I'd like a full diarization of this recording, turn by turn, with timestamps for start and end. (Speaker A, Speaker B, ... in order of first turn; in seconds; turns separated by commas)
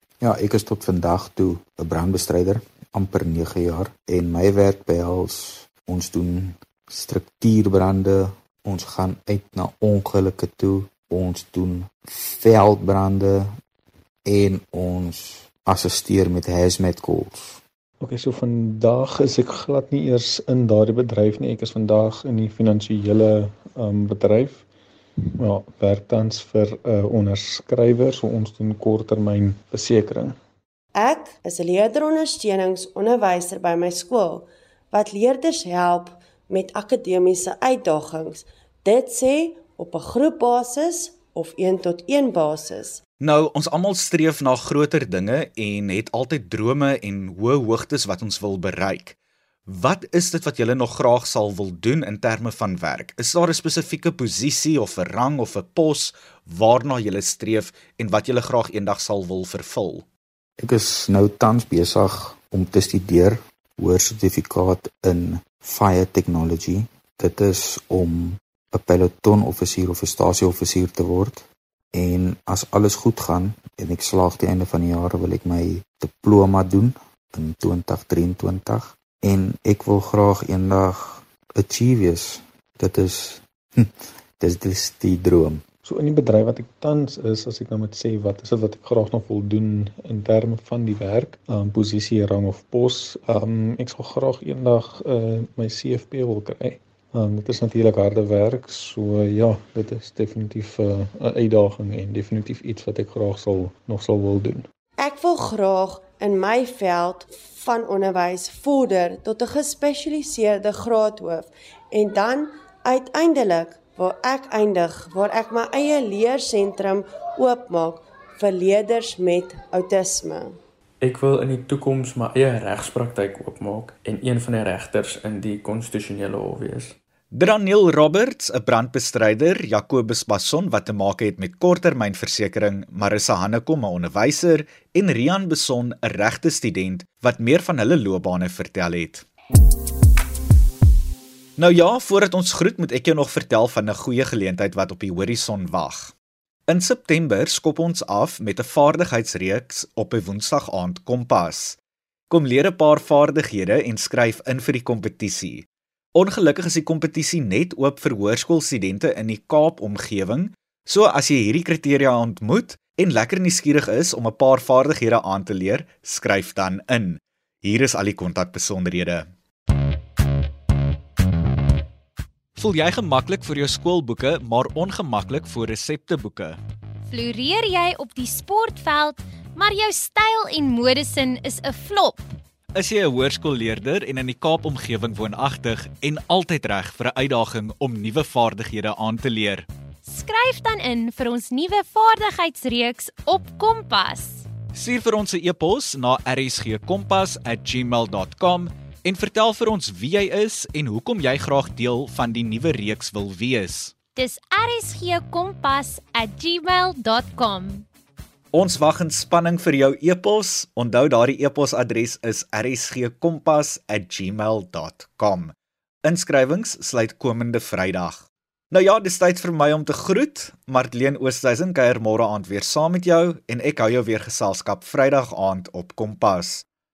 Speaker A: 0.2-13.5, Speaker A: 14.2-17.6, Speaker B: 18.0-24.6, Speaker B: 25.4-30.4, Speaker C: 30.9-43.0, Speaker D: 43.2-49.1, Speaker D: 49.7-60.0, Speaker A: 60.6-85.6, Speaker B: 85.8-104.7, Speaker C: 105.0-120.6, Speaker E: 121.0-127.0, Speaker D: 127.3-139.2, Speaker D: 141.6-146.1, Speaker D: 146.7-151.8, Speaker D: 152.3-169.3, Speaker D: 172.6-176.6, Speaker F: 177.1-182.2, Speaker D: 182.7-189.7, Speaker F: 190.1-194.4, Speaker D: 194.7-203.9, Speaker F: 204.2-207.8, Speaker D: 208.5-226.6